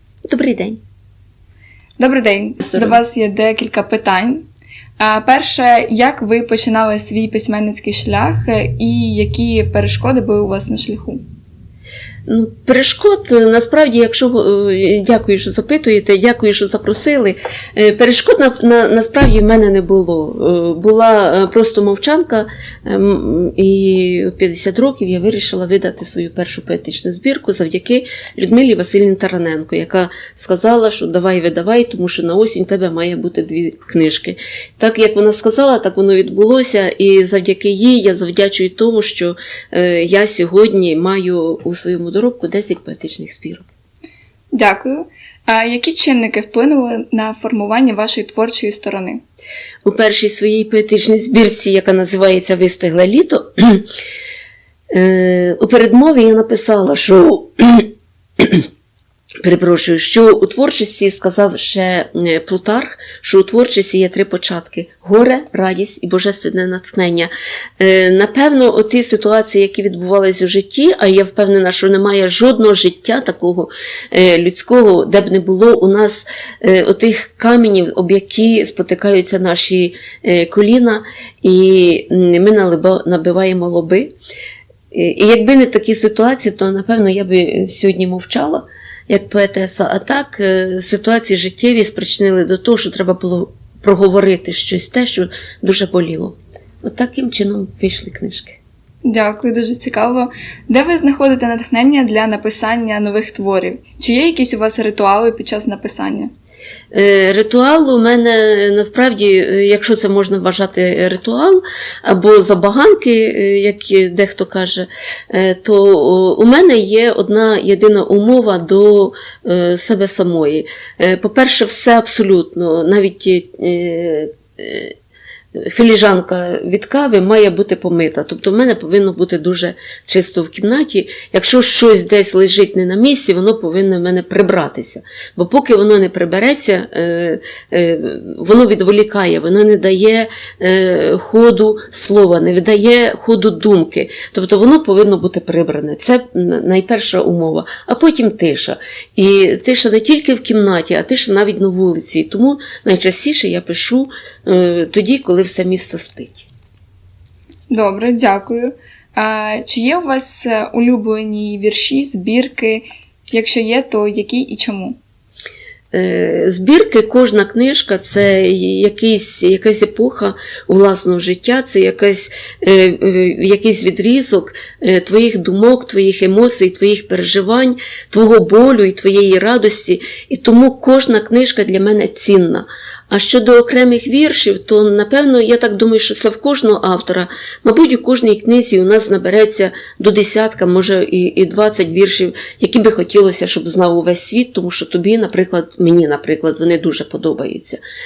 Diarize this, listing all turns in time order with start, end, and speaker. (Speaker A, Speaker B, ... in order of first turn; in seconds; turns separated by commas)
Speaker A: 0.3-0.8, Speaker B: 2.0-4.5, Speaker A: 2.7-3.0, Speaker B: 5.0-11.2, Speaker A: 12.3-43.7, Speaker B: 44.5-49.2, Speaker A: 49.8-53.9, Speaker A: 54.9-58.6, Speaker A: 59.4-84.1, Speaker A: 84.9-98.6, Speaker B: 99.0-106.3, Speaker A: 106.9-124.9, Speaker A: 125.6-156.5, Speaker B: 157.7-165.0, Speaker A: 165.9-197.8